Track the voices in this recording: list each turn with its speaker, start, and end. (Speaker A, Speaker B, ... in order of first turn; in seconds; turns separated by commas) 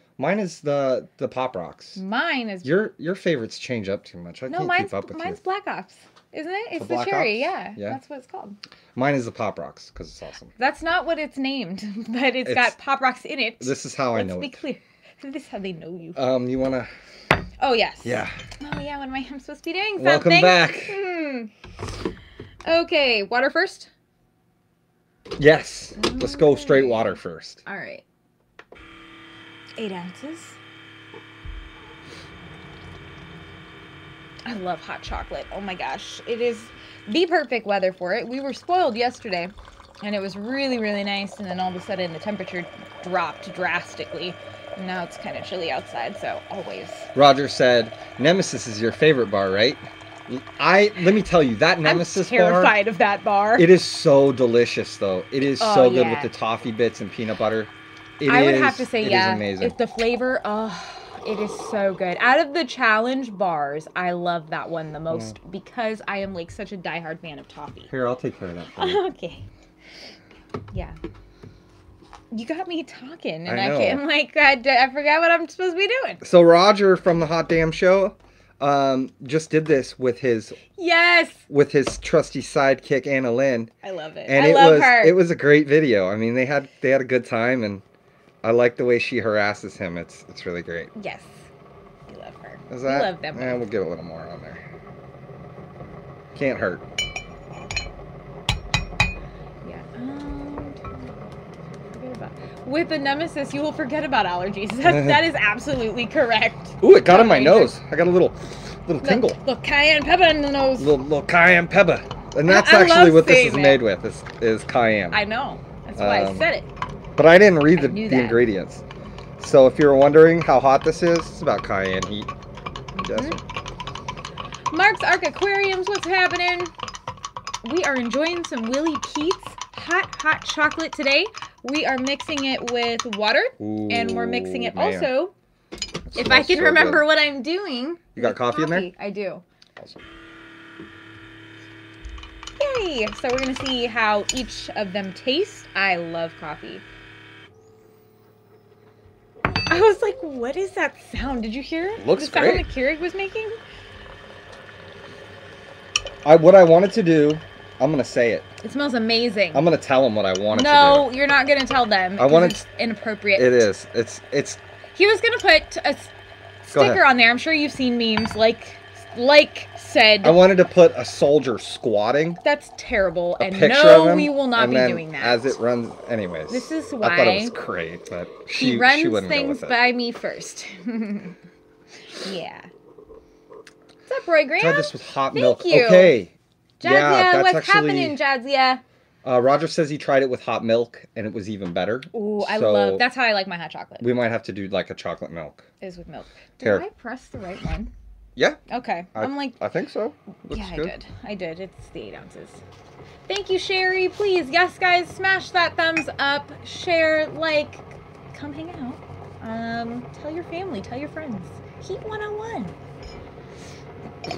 Speaker A: 0.2-2.0, Speaker B: 2.0-2.7, Speaker A: 2.6-5.4, Speaker B: 4.5-8.6, Speaker A: 6.8-8.0, Speaker A: 8.9-10.5, Speaker B: 10.6-16.2, Speaker A: 12.5-12.7, Speaker A: 13.6-14.6, Speaker A: 16.1-16.9, Speaker B: 17.6-21.5, Speaker A: 18.0-18.3, Speaker A: 20.0-21.0, Speaker B: 22.6-23.9, Speaker A: 25.4-27.6, Speaker B: 26.0-28.1, Speaker B: 29.8-30.6, Speaker B: 34.5-47.1, Speaker A: 47.1-52.8, Speaker B: 51.8-53.7, Speaker A: 53.6-59.8, Speaker B: 55.6-56.3, Speaker B: 58.3-67.9, Speaker A: 65.1-65.3, Speaker A: 67.9-69.0, Speaker B: 68.8-69.5, Speaker B: 70.7-71.0, Speaker B: 72.3-76.2, Speaker A: 73.5-74.0, Speaker A: 76.2-80.6, Speaker B: 80.8-81.5, Speaker A: 81.5-83.7, Speaker B: 83.8-85.2, Speaker A: 84.3-87.8, Speaker A: 88.4-90.9, Speaker B: 91.0-91.5, Speaker B: 92.1-93.7, Speaker A: 92.7-94.6, Speaker A: 96.3-96.8, Speaker B: 99.6-101.0, Speaker B: 101.9-107.8, Speaker A: 104.9-105.2, Speaker A: 106.8-109.4, Speaker B: 109.0-111.0, Speaker A: 110.8-115.2, Speaker B: 112.5-113.8, Speaker B: 115.1-116.7, Speaker A: 116.0-116.5, Speaker A: 117.2-118.8, Speaker B: 117.7-118.4, Speaker A: 119.4-122.3, Speaker A: 123.0-123.4, Speaker B: 123.1-123.4, Speaker B: 124.7-126.7, Speaker B: 127.6-135.3, Speaker A: 133.6-135.1, Speaker A: 136.1-137.1, Speaker B: 136.2-139.4, Speaker A: 138.2-138.9, Speaker B: 142.6-146.8, Speaker B: 149.7-153.6, Speaker A: 152.0-152.7, Speaker A: 156.2-158.5, Speaker B: 158.6-159.7, Speaker A: 159.5-161.1, Speaker B: 160.5-163.7, Speaker A: 162.2-162.6, Speaker A: 163.4-164.6, Speaker B: 164.9-166.1, Speaker B: 166.6-170.4, Speaker A: 166.7-167.1, Speaker A: 170.2-172.4, Speaker B: 172.4-175.6, Speaker A: 173.4-179.8, Speaker B: 176.5-177.5, Speaker B: 178.6-181.4, Speaker B: 182.2-182.7, Speaker B: 184.1-186.2, Speaker A: 184.6-188.2, Speaker B: 186.8-188.8, Speaker A: 189.2-193.1, Speaker B: 192.1-194.1, Speaker A: 194.0-195.7, Speaker B: 195.8-197.9, Speaker A: 196.6-196.9, Speaker B: 198.7-199.6, Speaker A: 199.2-200.9, Speaker B: 200.5-202.6, Speaker B: 203.3-212.8